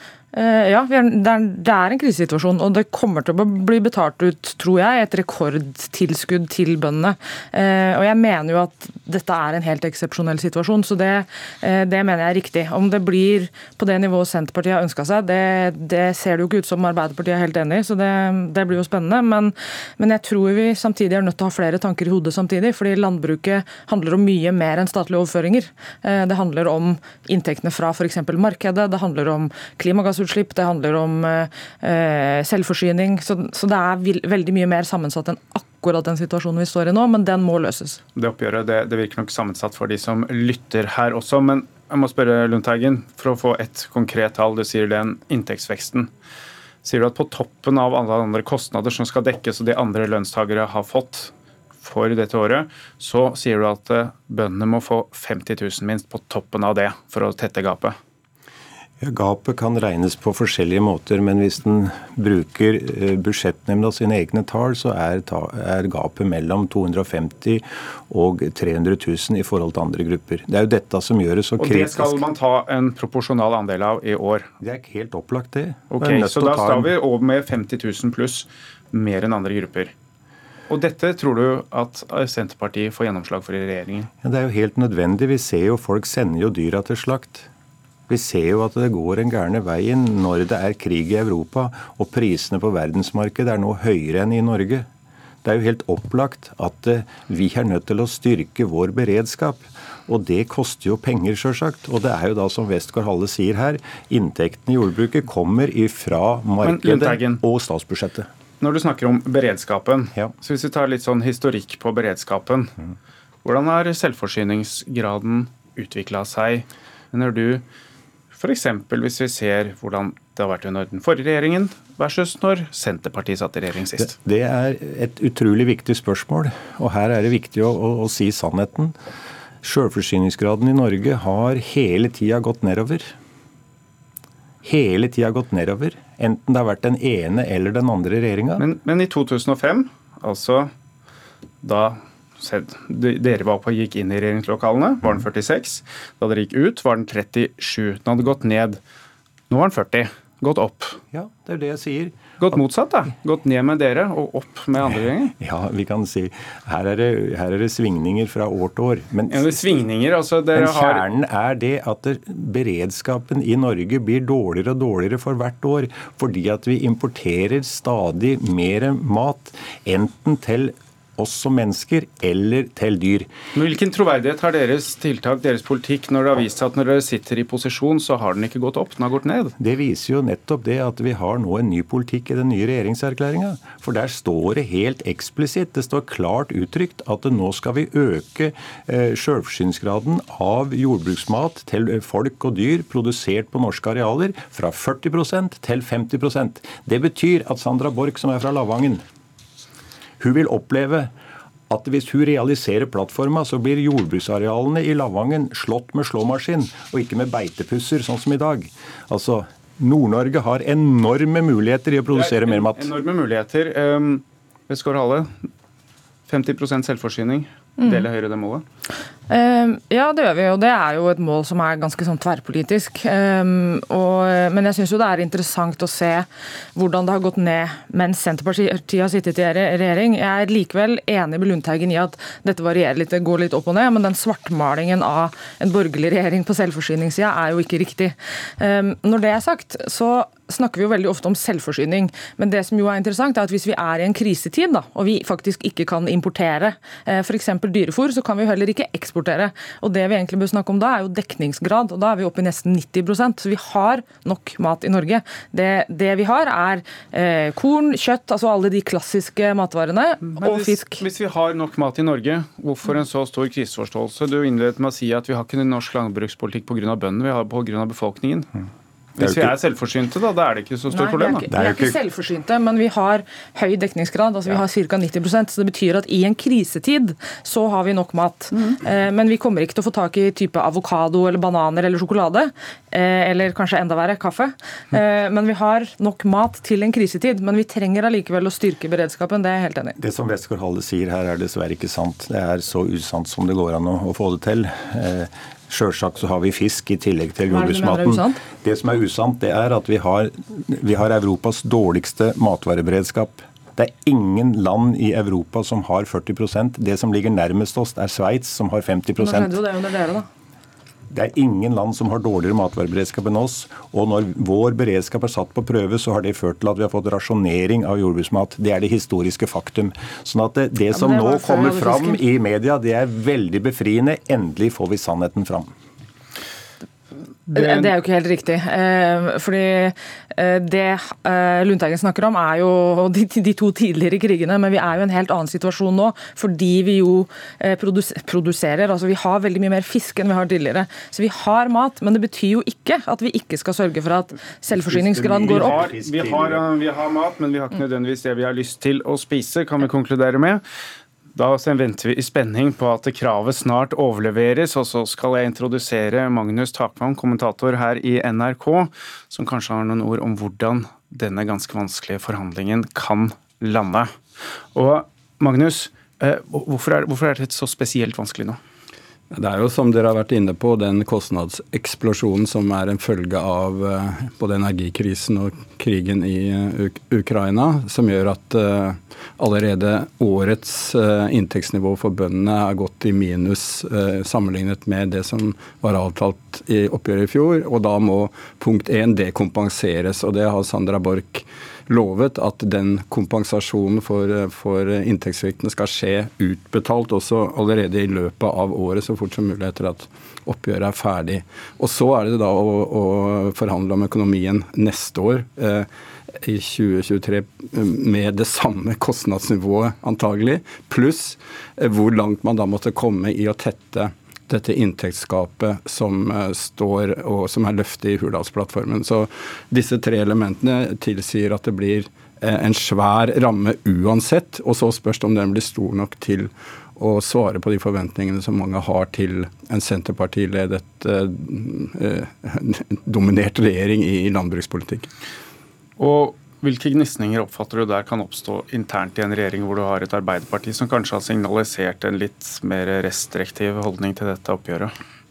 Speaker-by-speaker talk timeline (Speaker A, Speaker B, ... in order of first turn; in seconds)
Speaker A: 0.3-38.0, 217.8-218.1, 219.3-261.0, 270.9-290.0, 297.5-298.4, 309.2-310.3, 320.9-322.2, 327.5-345.8
Speaker B: 38.2-46.1, 46.8-51.3, 51.8-58.0, 71.6-74.5, 75.9-79.9, 80.7-84.1, 106.6-107.4, 108.6-112.7, 113.4-117.6, 118.3-124.1, 138.6-140.7, 141.6-148.8, 149.5-151.0, 152.4-155.3, 159.3-161.1, 173.6-179.5, 212.1-215.3, 216.3-218.6, 260.3-268.5, 269.2-271.5, 345.4-350.6, 351.4-364.1, 364.8-368.6, 436.0-444.9
Speaker C: 59.0-72.2, 74.6-76.9, 84.2-87.5, 88.1-94.9, 95.4-108.3, 124.0-128.9, 129.6-133.1, 134.6-138.6, 151.1-152.1, 155.4-159.5, 160.6-173.3, 179.6-199.0, 200.2-201.1, 201.7-212.9, 269.2-269.5, 271.5-272.0, 290.0-309.6, 311.1-325.7, 344.7-346.7
Speaker D: 369.3-405.9, 406.4-435.1